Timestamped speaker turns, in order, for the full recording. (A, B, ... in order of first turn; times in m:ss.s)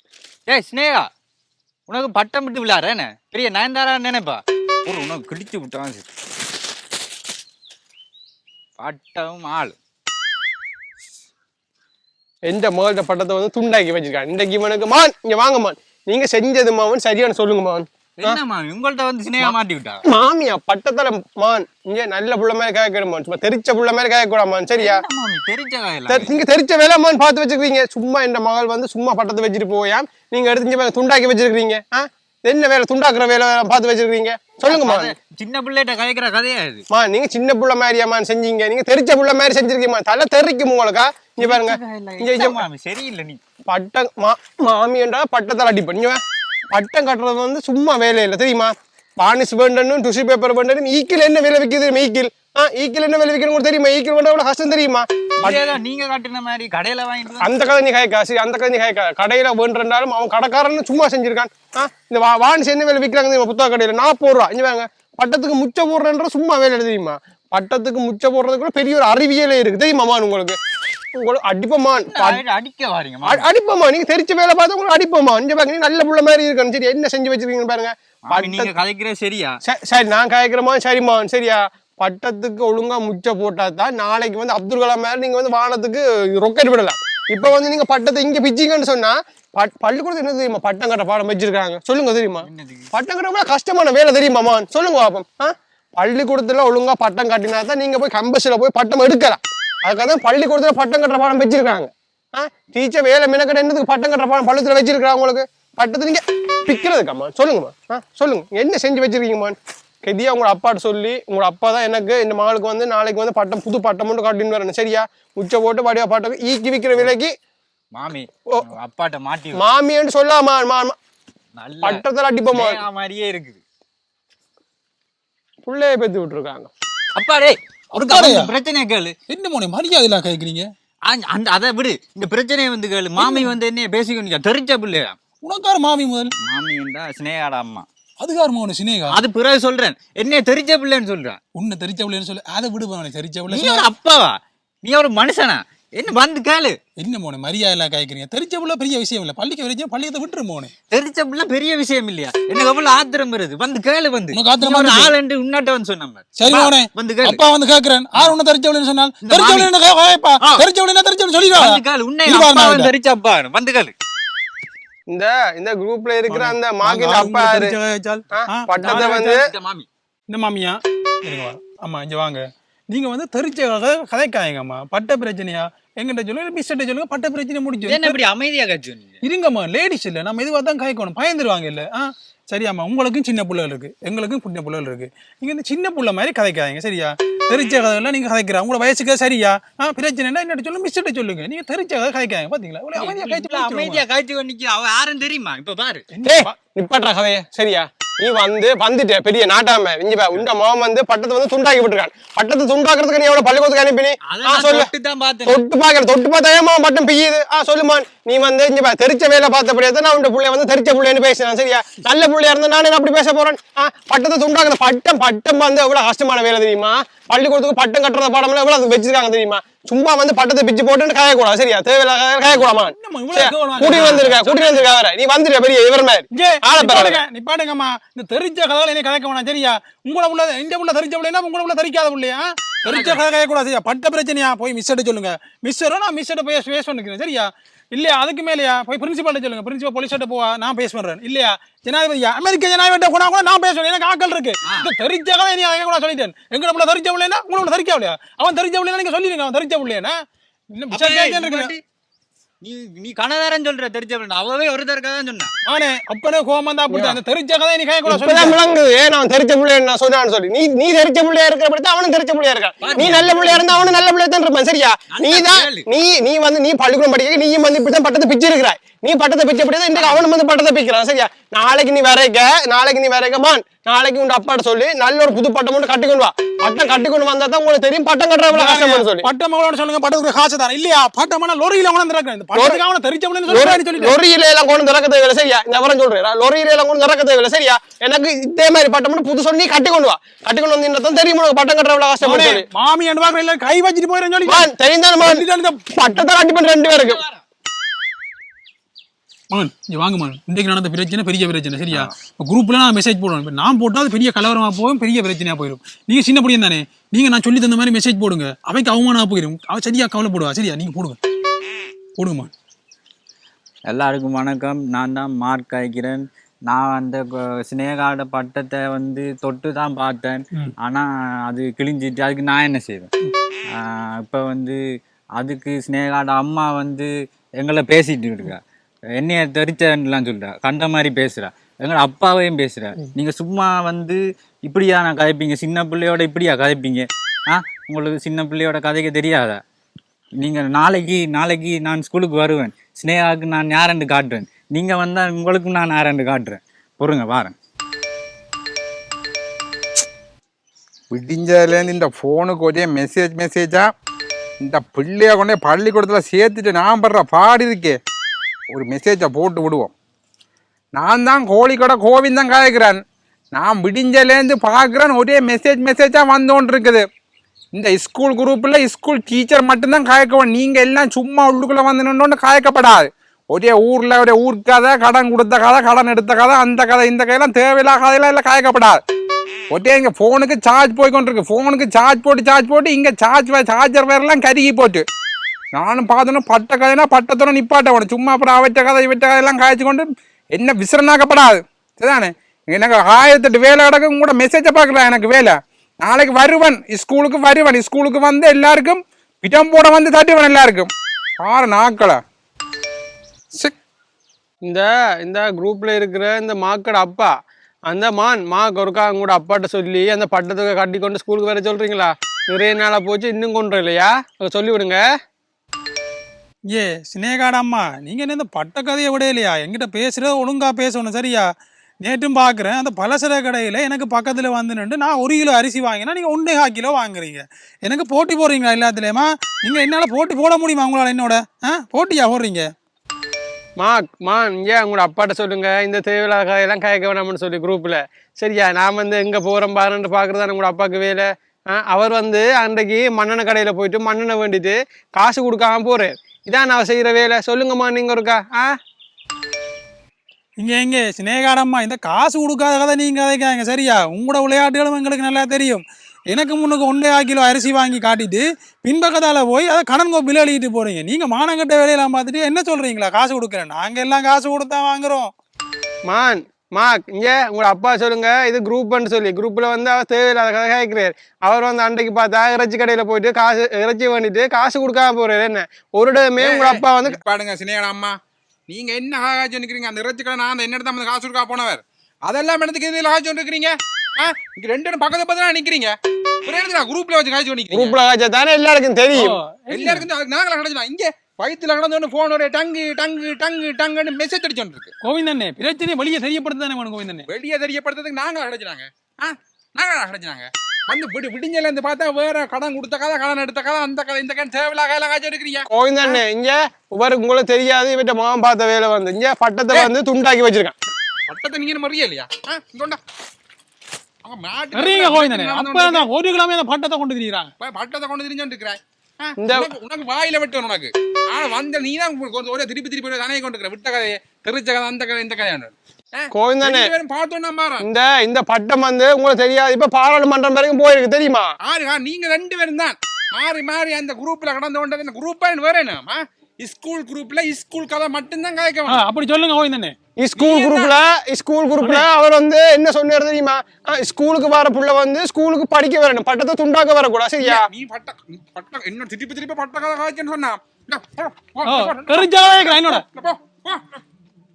0:00.5-0:01.1 A
0:01.9-0:06.1 A
0:08.8-0:09.8 A
0:12.5-0:18.4 B
0:18.2-0:20.0 A
0:19.4-0:25.0 B
0:24.8-0:26.4 A
0:26.1-0:35.1 B
0:34.7-0:36.8 A
0:36.9-0:42.6 B
0:41.4-0:43.4 A
0:43.7-0:55.7 B
0:55.4-0:57.6 A
0:57.4-1:10.6 B
1:11.2-1:12.4 B
1:12.0-1:13.5 A
1:13.2-1:18.7 B
1:18.3-1:19.6 A
1:19.6-1:57.3 B
1:32.4-1:32.9 A
1:58.0-1:59.7 A
1:59.5-2:01.0 B
2:01.6-2:03.6 A
2:01.8-2:02.8 B
2:05.6-2:06.7 B
2:07.2-2:09.1 A
2:07.9-2:08.5 C
2:09.3-2:10.7 C
2:11.1-2:15.2 A
2:13.2-2:13.6 C
2:15.4-2:16.3 C
2:16.4-2:17.9 A
2:18.2-2:19.2 C
2:19.1-2:21.4 A
2:21.6-2:23.9 C
2:23.5-2:26.8 A
2:27.0-2:30.7 C
2:30.9-2:37.4 A
2:34.3-2:35.2 C
2:36.4-2:42.9 C
2:39.2-2:39.7 A
2:41.5-2:43.9 A
2:45.1-2:47.8 B
2:46.3-2:49.4 C
2:48.4-2:49.4 B
2:48.8-2:49.9 A
2:50.3-2:58.2 C
2:57.8-2:59.2 A
2:59.2-3:14.0 C
3:13.0-3:16.1 A
3:16.1-3:16.6 C
3:16.2-3:24.9 B
3:24.3-3:25.6 A
3:25.5-3:47.2 B
3:42.6-3:44.9 C
3:43.8-3:44.3 A
3:46.3-4:10.1 C
3:52.8-3:53.2 A
4:10.7-4:11.7 C
4:10.9-4:11.8 A
4:12.6-4:15.5 A
4:15.6-4:18.6 C
4:16.9-4:17.2 B
4:18.1-4:39.3 B
4:22.8-4:23.7 A
4:25.1-4:25.9 A
4:38.5-4:44.2 C
4:42.6-4:42.8 B
4:43.5-4:52.7 B
4:52.2-4:54.7 C
4:54.5-4:57.2 B
4:55.2-4:55.9 C
4:59.5-5:11.2 C
5:12.2-5:12.5 C
5:13.9-5:23.1 A
5:23.7-5:24.8 A
5:25.4-5:28.6 A
5:29.2-5:39.6 A
5:40.4-5:47.6 A
5:51.1-5:53.9 D
5:54.6-5:58.0 D
5:58.7-5:59.9 D
6:01.0-6:03.0 D
6:03.5-6:07.0 D
6:07.8-6:19.0 D
6:19.7-6:25.0 D
6:25.7-6:42.2 D
6:44.6-6:47.3 B
6:47.9-6:55.0 B
6:56.7-7:01.5 C
7:02.0-7:12.7 C
7:13.8-7:28.7 B
7:30.6-7:45.3 C
7:46.1-7:57.2 B
7:56.4-7:58.2 D
7:58.7-8:08.0 D
8:07.7-8:09.4 B
8:09.2-8:10.1 C
8:09.7-8:14.9 D
8:15.0-8:17.3 C
8:17.3-8:26.2 D
8:25.7-8:30.8 B
8:31.3-8:33.0 D
8:34.2-8:36.1 D
8:34.7-8:37.5 C
8:37.6-8:47.9 D
8:39.4-8:39.7 B
8:46.3-8:46.9 B
8:47.8-8:51.5 B
8:51.6-8:59.0 D
8:58.9-9:00.0 C
9:00.2-9:07.7 B
9:00.4-9:01.0 D
9:01.8-9:02.0 C
9:07.4-9:13.8 D
9:11.6-9:13.0 C